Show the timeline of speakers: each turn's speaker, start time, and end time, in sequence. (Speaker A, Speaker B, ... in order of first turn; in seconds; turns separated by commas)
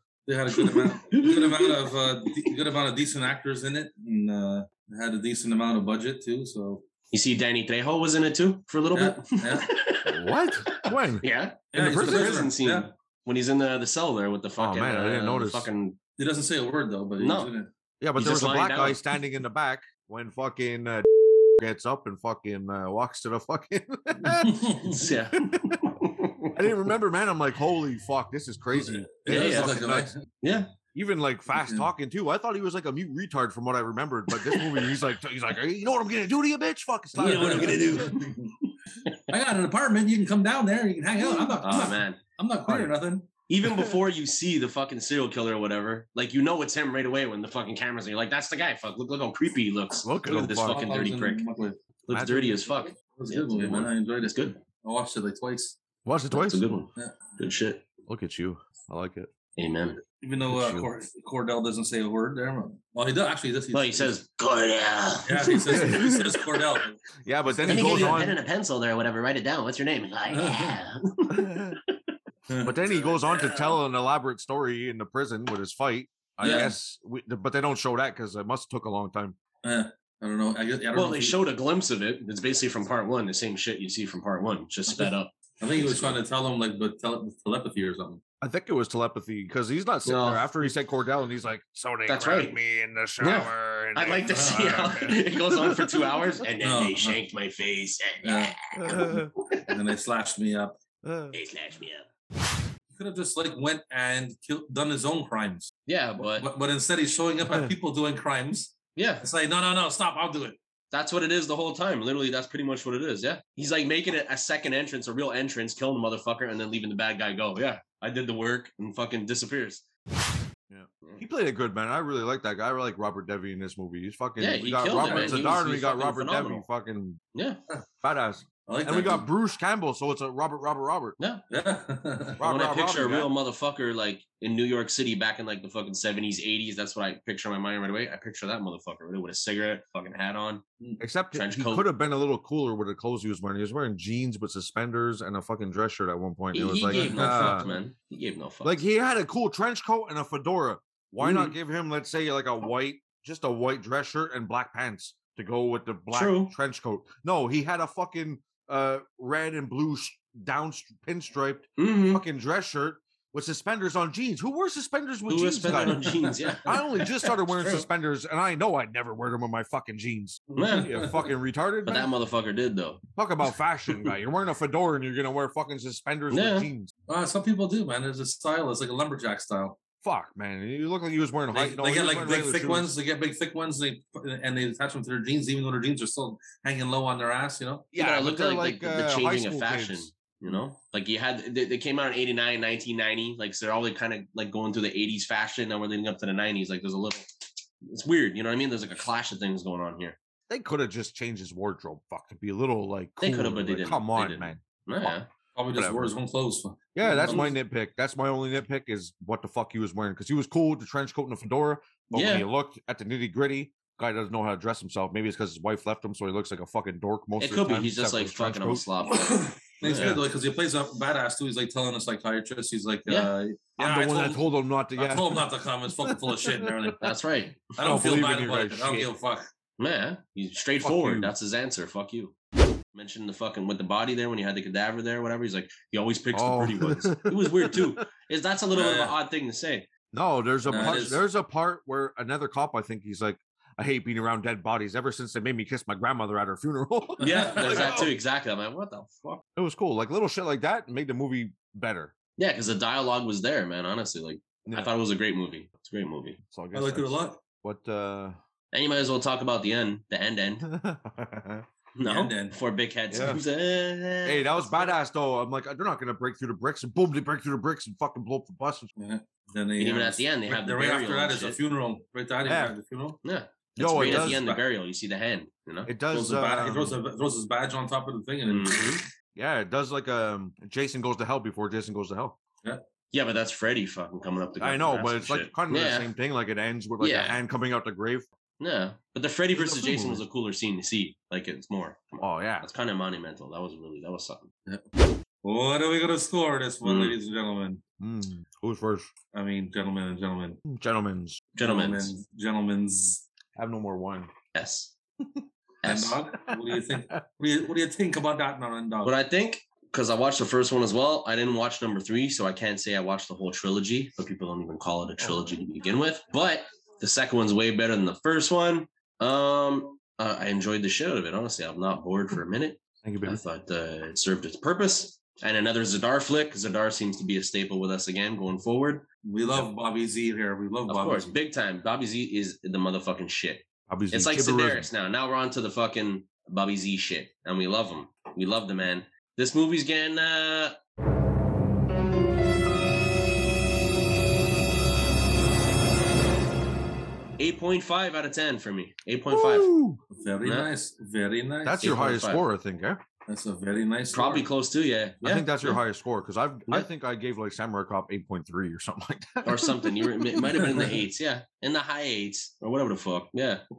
Speaker A: 0.3-6.8, Speaker B: 1.0-1.7, Speaker B: 7.1-10.2, Speaker A: 8.9-9.7, Speaker C: 10.1-12.5, Speaker B: 10.7-16.0, Speaker A: 11.7-12.9, Speaker C: 14.6-15.7, Speaker A: 16.2-17.7, Speaker B: 17.2-17.5, Speaker C: 18.0-24.7, Speaker B: 18.2-19.0, Speaker A: 24.4-25.0, Speaker B: 24.8-26.6, Speaker C: 26.6-30.1, Speaker A: 29.2-30.2, Speaker B: 29.3-29.8, Speaker B: 30.4-30.7, Speaker C: 30.9-38.2, Speaker A: 31.6-31.9, Speaker B: 37.2-38.2, Speaker A: 37.2-38.5, Speaker A: 39.3-43.3, Speaker C: 41.2-41.6, Speaker B: 41.6-42.2, Speaker C: 42.7-42.9, Speaker B: 43.5-51.5, Speaker C: 43.6-44.0, Speaker C: 50.0-50.9, Speaker A: 50.4-51.8, Speaker B: 52.1-54.6, Speaker C: 52.1-52.6, Speaker A: 53.0-55.8, Speaker C: 56.0-56.6, Speaker B: 56.3-57.8, Speaker C: 58.1-59.3, Speaker B: 59.6-60.0, Speaker A: 60.0-64.2, Speaker C: 60.5-60.9, Speaker B: 63.7-66.0, Speaker A: 65.3-68.3, Speaker C: 65.7-66.3, Speaker C: 67.2-68.4, Speaker B: 67.7-71.9, Speaker A: 70.3-70.8, Speaker C: 71.3-71.8, Speaker A: 72.5-73.1, Speaker C: 72.6-79.4, Speaker B: 76.4-76.7, Speaker A: 76.4-76.7, Speaker A: 79.6-81.4, Speaker B: 80.9-86.2, Speaker A: 85.6-88.2, Speaker C: 88.4-96.4, Speaker B: 90.1-90.4, Speaker B: 92.1-92.6, Speaker B: 93.2-99.2, Speaker A: 94.3-95.0, Speaker A: 96.6-97.2, Speaker A: 98.2-98.5, Speaker C: 98.8-99.3, Speaker A: 99.7-100.7, Speaker C: 101.0-101.4, Speaker B: 101.3-102.1, Speaker A: 102.9-110.6, Speaker B: 105.9-106.5, Speaker C: 107.5-107.7, Speaker B: 109.0-109.2, Speaker B: 110.9-119.8, Speaker C: 120.7-127.2, Speaker B: 124.4-126.7, Speaker A: 125.0-125.5, Speaker B: 127.3-127.6, Speaker C: 128.0-131.2, Speaker A: 128.7-129.3, Speaker B: 131.2-131.4, Speaker A: 131.5-132.4, Speaker C: 132.4-133.3, Speaker B: 132.4-140.6, Speaker C: 141.0-147.7, Speaker B: 141.3-141.9, Speaker B: 146.5-148.8, Speaker A: 146.9-147.9, Speaker C: 148.6-172.1, Speaker B: 151.2-151.5, Speaker B: 156.1-156.5, Speaker B: 161.8-162.2, Speaker B: 165.3-167.9, Speaker A: 165.7-166.4, Speaker A: 170.5-171.1, Speaker B: 170.6-171.0, Speaker B: 171.9-173.0, Speaker C: 173.2-176.9, Speaker B: 176.3-176.7, Speaker A: 177.1-179.8, Speaker C: 180.0-182.9, Speaker A: 181.5-187.9, Speaker C: 187.9-190.6, Speaker B: 188.0-197.3, Speaker B: 197.8-200.2, Speaker C: 200.5-205.2, Speaker B: 203.2-205.3, Speaker A: 205.6-207.6, Speaker C: 205.7-206.1, Speaker C: 206.9-218.8, Speaker B: 207.1-207.5, Speaker B: 212.1-212.5, Speaker B: 217.4-220.2, Speaker A: 219.7-227.0, Speaker C: 219.9-220.2, Speaker B: 223.1-223.3, Speaker C: 223.8-226.9, Speaker B: 227.0-227.7, Speaker A: 227.8-229.5, Speaker C: 227.8-229.1, Speaker B: 229.8-232.3, Speaker C: 230.8-231.3, Speaker B: 232.9-239.9, Speaker C: 236.3-238.0, Speaker A: 238.7-239.2, Speaker C: 240.1-248.1, Speaker B: 240.7-241.0, Speaker A: 240.7-241.2, Speaker A: 247.2-248.1, Speaker B: 247.2-249.4, Speaker C: 249.6-252.1, Speaker B: 252.4-256.4, Speaker C: 254.7-254.9, Speaker C: 256.4-258.4, Speaker A: 256.7-257.4, Speaker B: 258.7-260.6, Speaker C: 260.6-261.7, Speaker B: 262.0-264.9, Speaker A: 262.0-262.6, Speaker C: 263.1-263.4, Speaker C: 264.2-268.9, Speaker A: 269.0-273.2, Speaker B: 269.8-271.6, Speaker C: 272.5-272.8, Speaker B: 273.2-276.0, Speaker C: 273.8-274.5, Speaker A: 274.0-274.6, Speaker C: 275.9-277.0, Speaker A: 276.1-279.0, Speaker B: 278.5-279.0, Speaker C: 279.4-282.4, Speaker B: 283.1-286.1, Speaker C: 284.6-288.3, Speaker B: 287.0-287.4, Speaker B: 288.6-294.5, Speaker C: 289.5-290.2, Speaker C: 292.2-292.7, Speaker A: 295.4-297.8, Speaker B: 296.8-297.1, Speaker C: 298.0-299.1, Speaker A: 299.3-300.6, Speaker C: 300.7-301.4, Speaker B: 301.6-302.1, Speaker A: 301.6-303.2, Speaker C: 303.6-304.3, Speaker B: 304.5-304.9, Speaker B: 305.8-306.2, Speaker A: 305.8-309.1, Speaker C: 306.5-307.2, Speaker B: 309.0-329.1, Speaker C: 323.0-323.4, Speaker A: 329.2-331.3, Speaker B: 330.9-340.8, Speaker C: 333.9-334.9, Speaker B: 347.4-349.7, Speaker C: 349.3-350.0, Speaker A: 350.1-351.8, Speaker B: 350.4-350.7, Speaker C: 351.6-353.0, Speaker B: 351.8-352.4, Speaker A: 353.3-354.5, Speaker B: 354.1-355.8, Speaker C: 355.2-360.6, Speaker B: 359.4-363.6